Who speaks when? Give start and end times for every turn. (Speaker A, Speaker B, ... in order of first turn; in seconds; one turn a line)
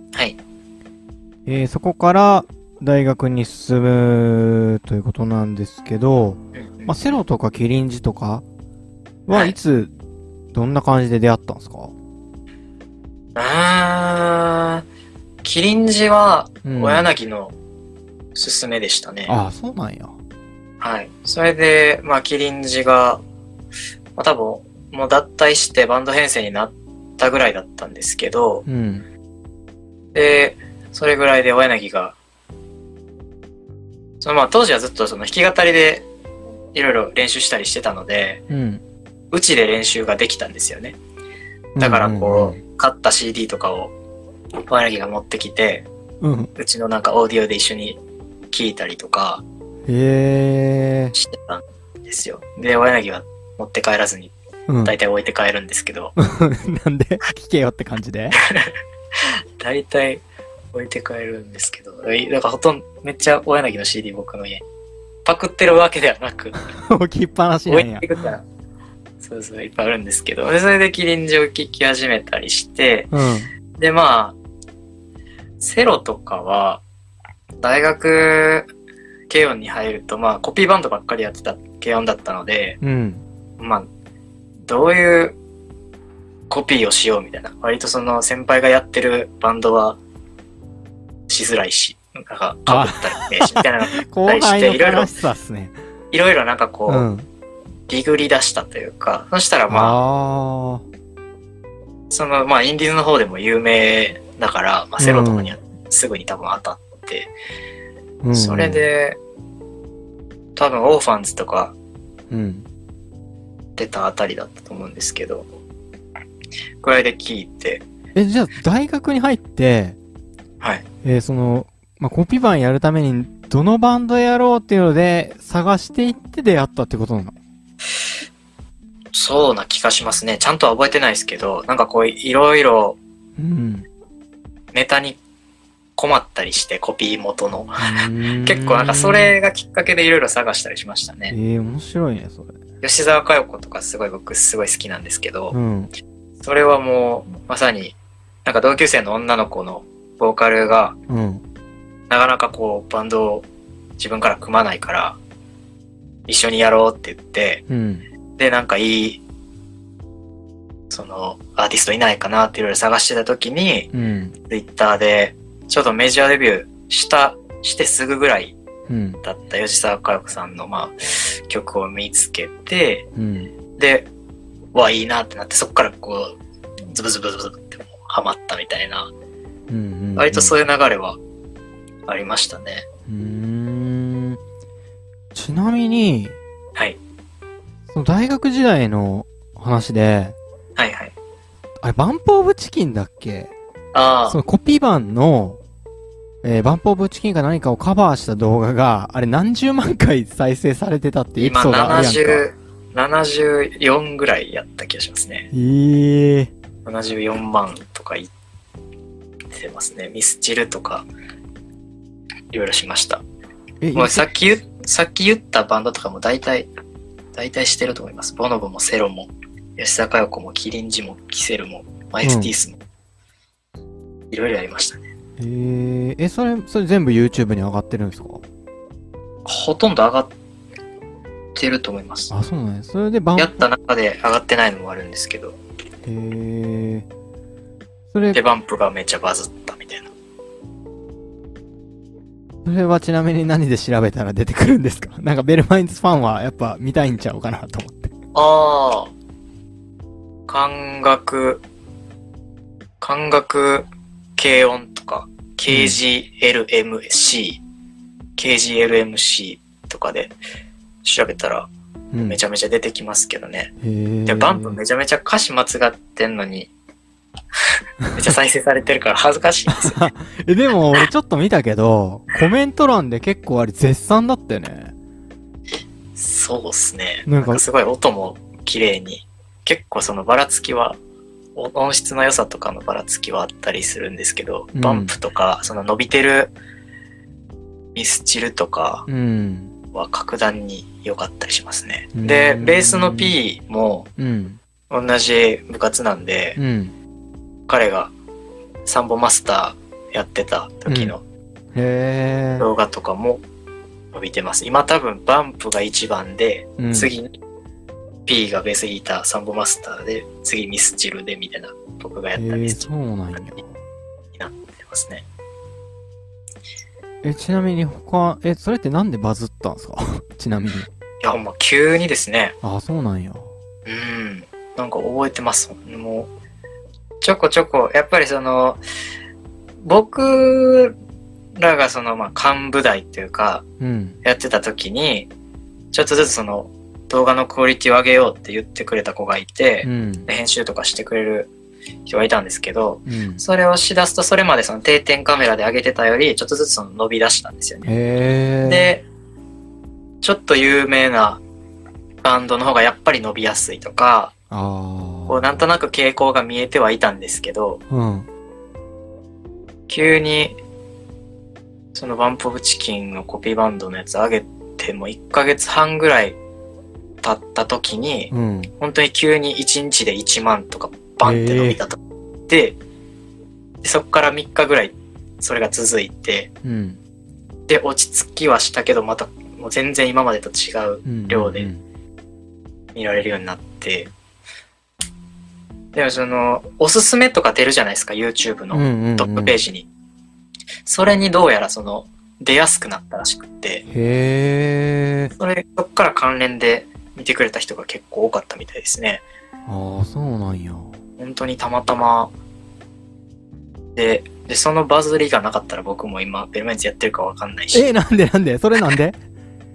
Speaker A: 1.4-8.4
Speaker B: 6.5-7.0
Speaker A: 9.2-9.9
Speaker A: 10.5-11.9
Speaker B: 13.3-14.8
Speaker B: 15.4-17.5
Speaker A: 16.6-17.1
Speaker B: 18.3-19.3
Speaker A: 19.3-20.1
Speaker B: 20.8-23.2
Speaker B: 24.1-28.6
Speaker A: 28.6-29.0
Speaker B: 30.1-32.1
Speaker B: 34.2-36.0
Speaker B: 36.7-38.4
Speaker A: 38.5-38.8
Speaker B: 39.3-41.0
Speaker A: 41.8-42.6
Speaker B: 41.8-43.9
Speaker B: 44.7-45.9
Speaker A: 46.2-46.5
Speaker B: 46.6-48.0
Speaker B: 48.5-49.4
Speaker A: 49.9-51.1
Speaker B: 51.1-54.3
Speaker A: 54.7-54.9
Speaker B: 54.8-56.1
Speaker A: 56.2-58.4
Speaker B: 58.4-58.7
Speaker B: 59.6-60.2
Speaker B: 60.7-64.6
Speaker B: 65.2-66.6
Speaker A: 66.7-68.1
Speaker B: 67.7-68.4
Speaker B: 69.2-73.1
Speaker A: 73.1-73.5
Speaker B: 73.8-74.3
Speaker B: 75.6-76.8
Speaker B: 77.6-78.7
Speaker B: 79.3-82.8
Speaker A: 82.8-83.2
Speaker B: 83.6-83.9
Speaker B: 84.7-85.4
Speaker B: 86.5-90.0
Speaker B: 91.3-95.1
Speaker A: 92.7-95.7
Speaker B: 96.1-97.1
Speaker A: 96.9-97.2
Speaker B: 97.9-100.0
Speaker A: 99.7-100.8
Speaker B: 102.1-107.3
Speaker A: 105.0-105.5
Speaker A: 108.2-108.8
Speaker B: 108.3-109.2
Speaker B: 110.5-111.7
Speaker A: 112.3-112.7
Speaker B: 113.8-115.5
Speaker B: 116.8-117.8
Speaker A: 118.1-120.0
Speaker A: 121.0-127.4
Speaker B: 129.1-133.0
Speaker A: 133.4-133.9
Speaker B: 134.7-135.2
Speaker B: 136.0-137.8
Speaker A: 137.8-139.4
Speaker B: 138.4-141.3
Speaker A: 141.3-142.6
Speaker B: 142.8-145.5
Speaker A: 145.5-145.9
Speaker B: 146.4-150.9
Speaker A: 151.1-151.4
Speaker B: 152.1-153.4
Speaker B: 154.0-155.2
Speaker B: 156.3-157.6
Speaker A: 157.7-158.1
Speaker B: 158.4-159.2
Speaker B: 160.9-163.9
Speaker A: 163.9-164.3
Speaker B: 164.5-168.6
Speaker A: 168.9-169.2
Speaker B: 169.2-173.1
Speaker A: 173.2-173.5
Speaker B: 173.8-174.1
Speaker B: 174.7-176.3
Speaker B: 176.9-179.1
Speaker A: 179.7-180.5
Speaker B: 180.2-181.2
Speaker B: 182.1-182.8
Speaker A: 183.1-184.4
Speaker A: 185.3-186.4
Speaker A: 187.9-190.3
Speaker B: 190.8-191.1
Speaker A: 191.8-193.5
Speaker B: 193.9-194.4
Speaker A: 194.3-195.6
Speaker A: 196.4-202.4
Speaker B: 201.4-205.5
Speaker A: 205.5-206.5
Speaker B: 206.8-208.3
Speaker B: 209.5-211.1
Speaker B: 212.5-213.2
Speaker A: 213.8-214.3
Speaker B: 213.9-216.7
Speaker B: 217.3-222.8
Speaker A: 222.2-222.5
Speaker B: 224.3-225.1
Speaker A: 225.4-228.4
Speaker B: 229.4-230.3
Speaker B: 231.6-232.3
Speaker A: 232.3-233.7
Speaker B: 233.4-235.6
Speaker A: 236.0-237.1
Speaker A: 238.1-238.4
Speaker B: 238.3-240.1
Speaker A: 242.6-248.1
Speaker B: 248.3-249.1
Speaker B: 250.5-251.6
Speaker B: 253.0-257.6
Speaker A: 255.7-256.0
Speaker B: 258.4-260.3
Speaker B: 261.0-261.7
Speaker A: 262.1-262.4
Speaker B: 262.2-263.7
Speaker A: 263.8-264.8
Speaker B: 264.2-266.7
Speaker B: 268.1-270.1
Speaker A: 269.7-274.9
Speaker B: 276.1-281.0
Speaker A: 277.3-277.6
Speaker B: 281.6-286.5
Speaker A: 284.7-285.1
Speaker B: 287.9-289.1
Speaker A: 289.1-289.7
Speaker B: 289.9-294.1
Speaker A: 292.1-293.4
Speaker A: 294.2-294.6
Speaker B: 294.9-296.6
Speaker A: 296.6-296.9
Speaker B: 297.7-298.1
Speaker B: 298.8-301.2
Speaker A: 300.9-301.1
Speaker A: 301.7-302.7
Speaker B: 302.6-303.4
Speaker B: 304.1-307.3
Speaker A: 306.8-307.1
Speaker B: 308.2-312.9
Speaker A: 312.3-313.7
Speaker B: 314.3-315.2
Speaker A: 317.2-320.9
Speaker B: 321.2-322.5
Speaker A: 322.6-323.5
Speaker B: 323.9-326.3
Speaker B: 327.2-328.8
Speaker B: 329.8-330.9
Speaker B: 331.6-333.6
Speaker A: 333.8-334.2
Speaker B: 334.2-335.3
Speaker B: 335.9-341.5
Speaker A: 339.8-340.3
Speaker B: 342.1-347.9
Speaker A: 343.1-343.4
Speaker A: 347.8-348.9
Speaker B: 348.6-349.0
Speaker B: 350.2-351.4
Speaker B: 352.2-354.3
Speaker A: 354.5-355.7
Speaker B: 355.3-357.8
Speaker A: 357.9-358.3
Speaker B: 359.9-360.6
Speaker B: 361.9-366.4
Speaker B: 367.2-372.8
Speaker A: 368.3-368.7
Speaker A: 371.2-371.8
Speaker B: 373.8-376.5
Speaker A: 376.6-377.0
Speaker B: 377.7-381.7
Speaker A: 381.0-381.8
Speaker B: 382.9-384.1
Speaker B: 385.9-389.9
Speaker A: 388.7-389.6
Speaker B: 390.8-393.8
Speaker A: 393.9-395.3
Speaker B: 395.4-399.2
Speaker A: 399.6-400.9
Speaker B: 401.2-402.3
Speaker B: 403.9-407.9
Speaker A: 407.7-409.1